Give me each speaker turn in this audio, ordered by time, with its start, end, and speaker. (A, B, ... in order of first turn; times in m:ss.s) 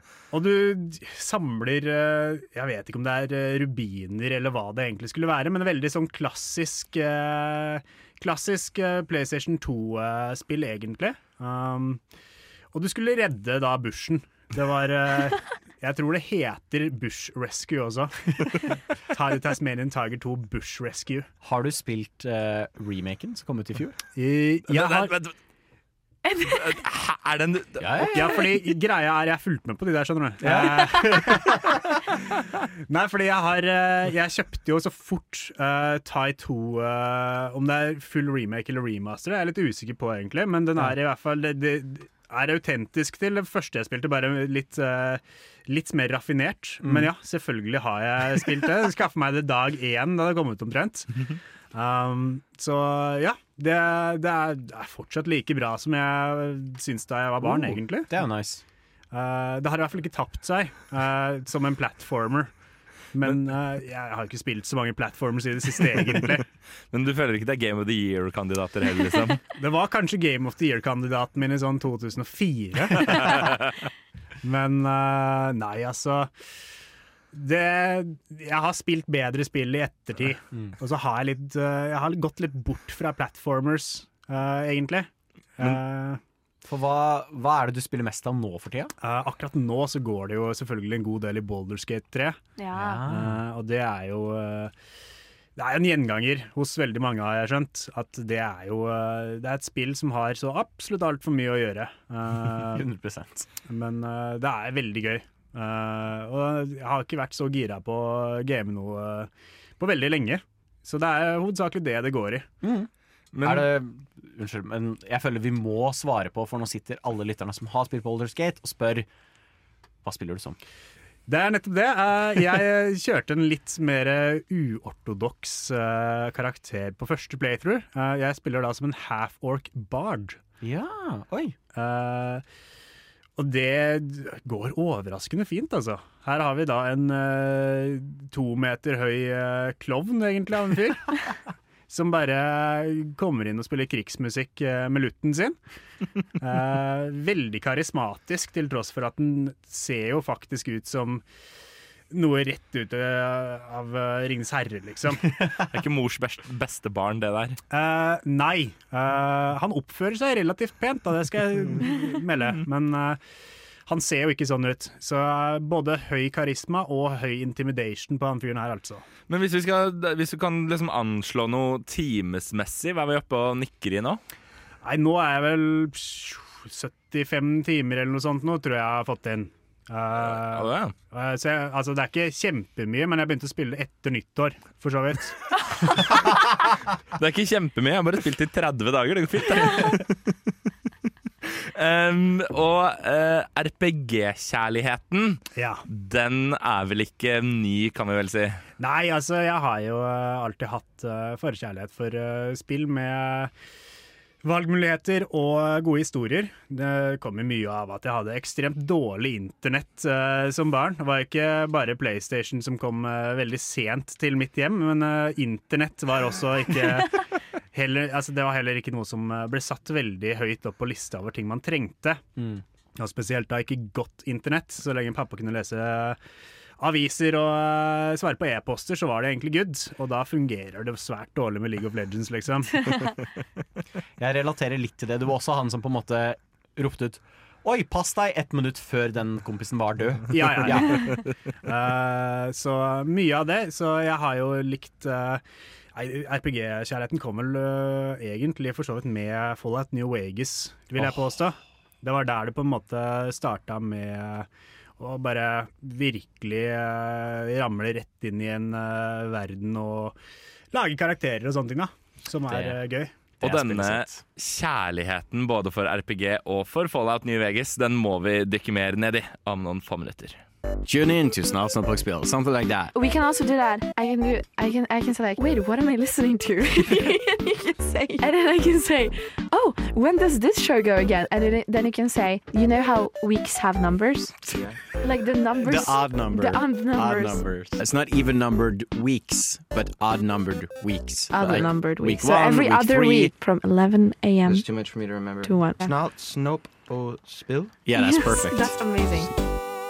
0:00.3-0:12.0 A
0:12.7-0:18.6 A
0:19.1-0:21.3 A
0:21.4-0:24.0 B
0:24.1-0:25.2 A
0:24.7-0:25.3 C
0:26.2-0:26.6 D
0:26.4-0:28.1 C
0:27.8-0:28.4 B
0:28.1-0:32.0 A
0:30.4-0:31.5 B
0:32.9-0:58.1 A
0:46.8-0:47.1 B
0:57.4-0:58.6 B
0:59.1-1:02.5 A
1:03.1-1:06.4 A
1:06.9-1:09.4 C
1:09.5-1:13.6 A
1:14.4-1:16.3 A
1:17.3-1:26.2 A
1:26.6-1:28.9 B
1:29.0-1:32.4 A
1:32.6-1:33.0 D
1:32.7-1:33.4 B
1:33.0-1:34.7 A
1:35.6-1:42.9 A
1:42.6-1:43.5 B
1:43.6-1:52.5 A
1:52.6-1:52.9 B
1:53.3-1:53.7 C
1:53.4-1:59.1 B
2:00.0-2:00.6 B
2:01.3-2:10.4 A
2:10.6-2:11.6 B
2:11.7-2:12.4 A
2:13.4-2:21.3 A
2:21.9-2:25.6 A
2:26.4-2:31.2 A
2:32.1-2:35.4 A
2:35.7-2:37.6 C
2:37.7-2:43.2 A
2:43.9-2:49.0 A
2:49.3-2:54.2 C
2:54.8-3:06.2 A
3:00.1-3:00.9 C
3:07.1-3:10.3 C
3:11.4-3:18.6 C
3:15.5-3:15.8 A
3:18.8-3:23.5 A
3:24.4-3:42.2 A
3:43.0-3:46.2 A
3:46.8-3:52.9 A
3:54.2-4:01.0 B
4:00.3-4:05.4 A
4:05.9-4:20.2 A
4:11.0-4:11.3 B
4:20.7-4:23.3 A
4:22.5-4:22.7 B
4:23.4-4:24.2 B
4:23.4-4:30.4 C
4:30.8-4:32.9 B
4:32.9-4:47.5 D
4:44.5-4:44.8 E
4:45.6-4:53.3 B
4:51.3-4:54.6 D
4:54.4-4:57.7 E
4:55.4-4:55.8 D
4:57.8-4:59.0 B
4:57.9-4:59.3 D